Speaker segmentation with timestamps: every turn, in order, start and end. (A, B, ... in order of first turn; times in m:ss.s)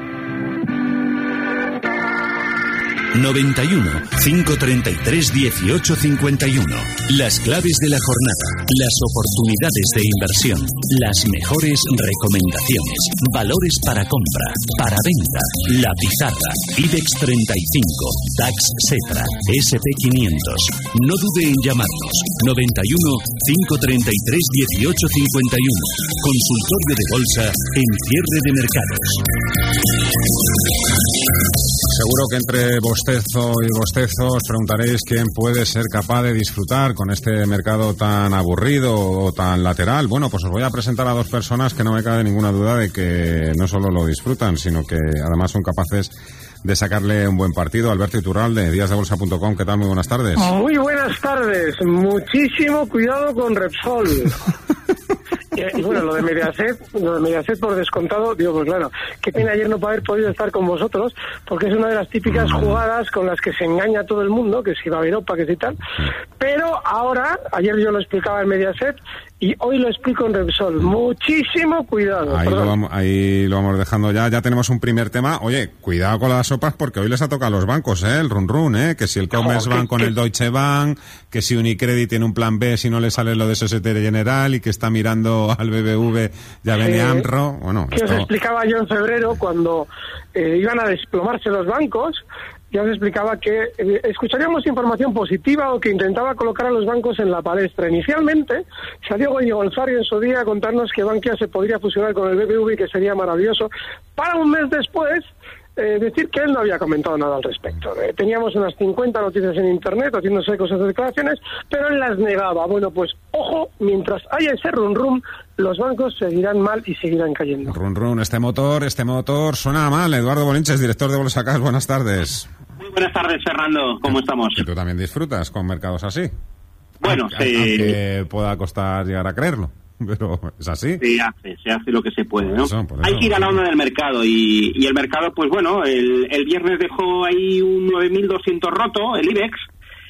0:03.1-0:29.2 A
0:31.9-0:50.5 B
0:50.4-0:54.4 C
0:55.5-1:05.8 C
1:02.4-1:02.7 B
1:06.4-1:12.7 C
1:12.3-1:28.3 B
1:19.4-1:20.1 C
1:26.8-1:27.3 C
1:27.9-1:45.3 C
1:45.8-1:57.8 C
1:57.7-2:02.5 B
2:02.8-2:04.6 D
2:04.6-2:06.3 B
2:07.0-2:08.0 D
2:07.0-2:11.0 B
2:11.0-2:19.7 D
2:12.4-2:13.6 B